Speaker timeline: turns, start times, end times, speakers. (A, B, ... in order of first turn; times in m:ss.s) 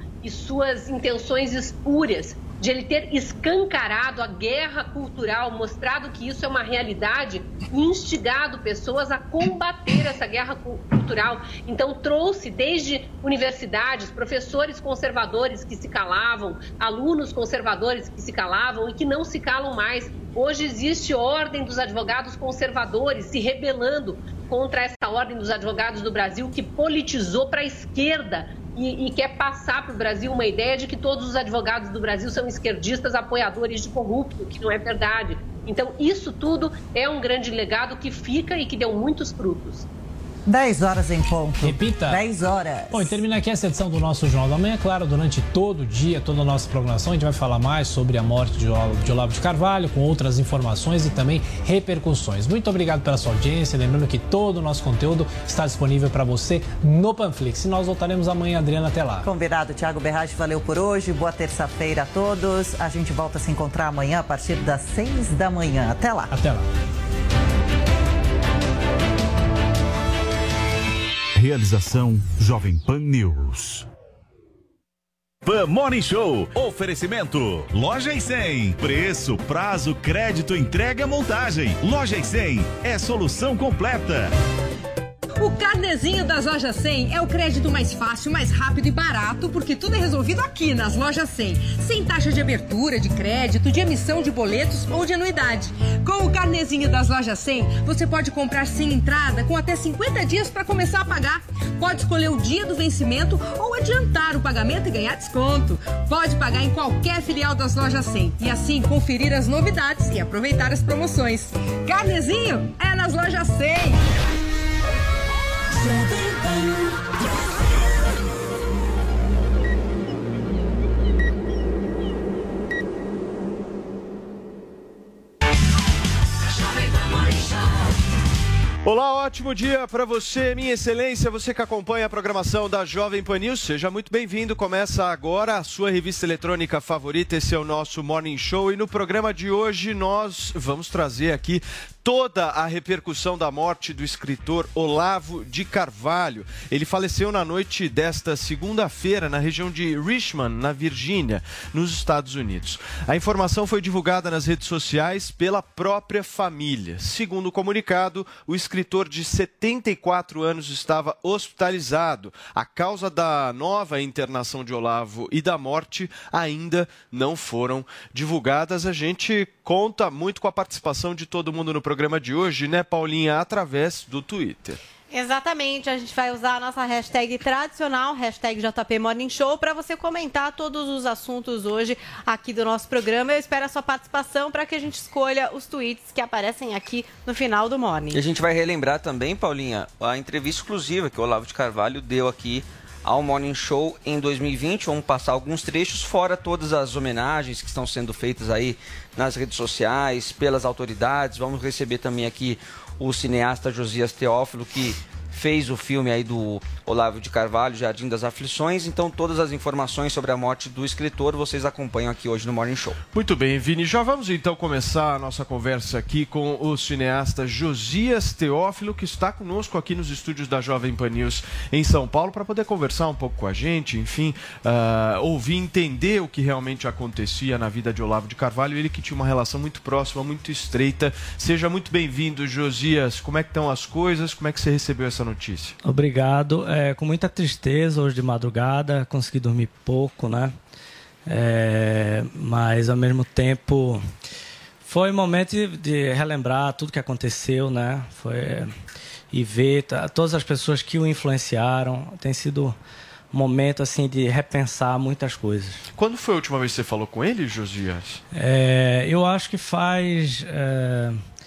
0:00.2-0:39.8 A
0:40.5-0:43.2 B
0:41.6-0:42.2 C
0:42.9-0:59.3 C
0:59.2-1:06.3 B
1:06.3-1:06.6 C
1:11.3-1:13.8 D
1:15.4-1:24.3 D
1:25.4-1:54.0 E
2:08.8-2:54.8 F
2:55.1-3:08.2 G
3:08.1-3:33.0 H
3:33.1-3:55.8 F
3:55.8-4:00.6 I
4:01.3-4:04.0 I
4:04.8-4:08.7 I
4:09.3-4:12.8 I
4:13.3-4:15.8 I
4:15.9-4:18.2 F
4:18.3-4:21.2 I